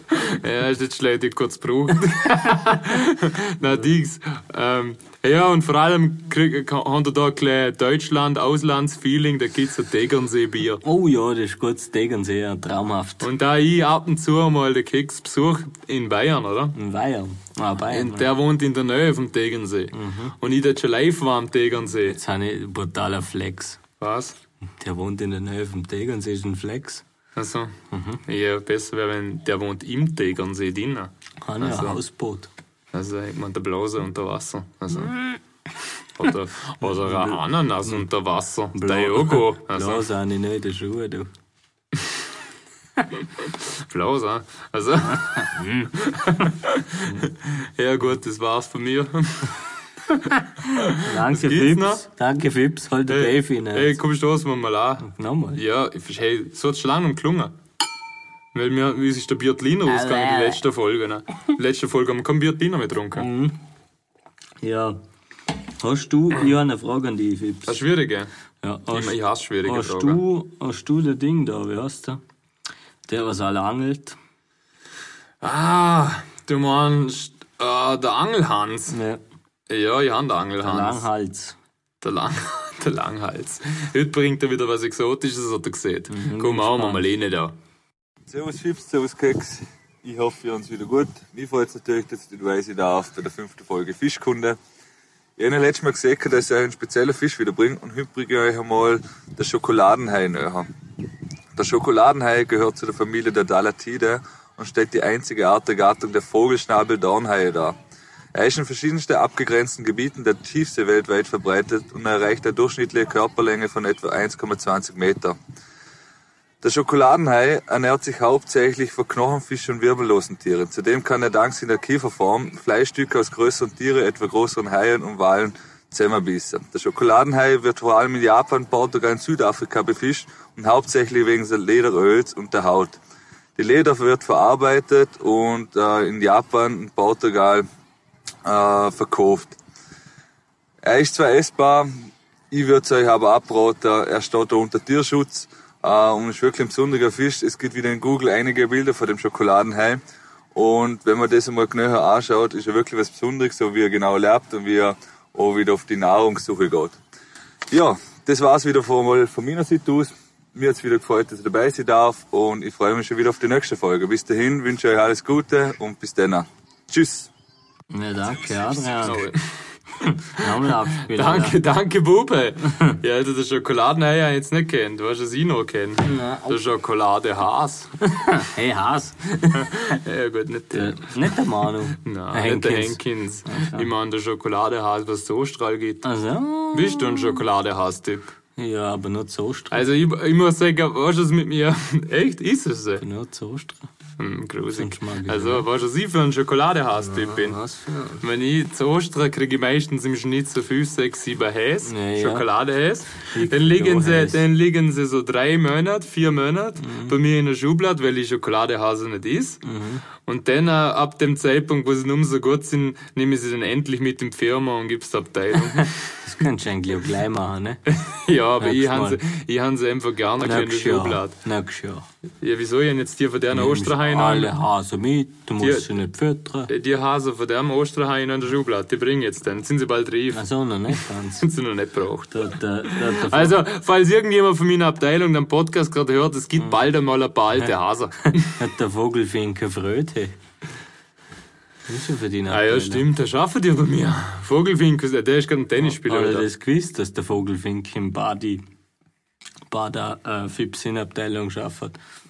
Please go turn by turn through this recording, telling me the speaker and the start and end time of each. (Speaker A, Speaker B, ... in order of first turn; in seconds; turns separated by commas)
Speaker A: 0.1-10.8, Speaker B: 10.8-13.3, Speaker A: 13.2-16.7, Speaker B: 16.7-18.3, Speaker A: 17.9-22.2, Speaker B: 19.9-20.3, Speaker B: 22.1-23.8, Speaker A: 24.0-24.4, Speaker B: 24.6-27.0, Speaker A: 27.4-32.0, Speaker B: 27.9-28.2, Speaker B: 31.4-32.5, Speaker A: 32.9-35.2, Speaker B: 35.1-35.4, Speaker A: 36.1-40.0, Speaker B: 37.0-38.0, Speaker B: 38.7-41.3, Speaker A: 43.4-49.5, Speaker B: 45.1-45.9, Speaker A: 50.0-52.0, Speaker B: 50.9-54.0, Speaker A: 53.1-57.5, Speaker B: 55.0-55.6, Speaker A: 58.5-63.3, Speaker B: 59.9-60.6, Speaker B: 63.1-63.6, Speaker B: 64.6-65.0, Speaker B: 65.8-67.8, Speaker A: 67.7-68.3, Speaker B: 68.6-72.2, Speaker A: 68.9-70.2, Speaker B: 73.1-74.2, Speaker A: 75.4-79.0, Speaker B: 78.9-79.2, Speaker A: 79.7-81.0, Speaker B: 80.6-81.6, Speaker A: 82.0-87.5, Speaker B: 86.1-87.1, Speaker C: 88.3-94.6, Speaker C: 95.4-100.7, Speaker C: 101.5-107.7, Speaker C: 108.3-115.4, Speaker C: 116.6-133.0, Speaker C: 133.6-137.6, Speaker C: 138.4-139.6, Speaker C: 140.8-141.9, Speaker C: 142.5-150.0, Speaker C: 150.5-156.9, Speaker C: 157.7-167.3, Speaker B: 167.9-169.2, Speaker A: 169.0-177.9, Speaker B: 170.3-171.6, Speaker B: 176.0-176.6, Speaker B: 178.0-179.9, Speaker A: 179.5-181.3, Speaker B: 180.7-183.9, Speaker A: 181.9-186.0, Speaker B: 186.0-187.4, Speaker A: 186.7-188.3, Speaker B: 188.6-189.8, Speaker A: 189.7-193.0, Speaker B: 193.0-193.9, Speaker A: 194.2-197.6, Speaker B: 194.7-195.7, Speaker B: 197.0-198.2, Speaker A: 198.2-209.6, Speaker B: 201.8-202.4, Speaker B: 203.2-204.4, Speaker B: 206.8-207.1, Speaker B: 209.6-210.0, Speaker A: 210.2-216.2, Speaker B: 215.6-217.8, Speaker A: 217.9-221.3, Speaker B: 218.6-219.2, Speaker B: 220.4-222.1, Speaker A: 222.4-224.5, Speaker B: 223.5-226.7, Speaker A: 225.6-225.9, Speaker A: 226.7-238.6, Speaker B: 230.3-231.5, Speaker B: 232.3-233.6, Speaker B: 238.3-240.3, Speaker B: 241.9-243.1, Speaker A: 242.5-246.5, Speaker B: 245.8-248.6, Speaker B: 249.7-251.9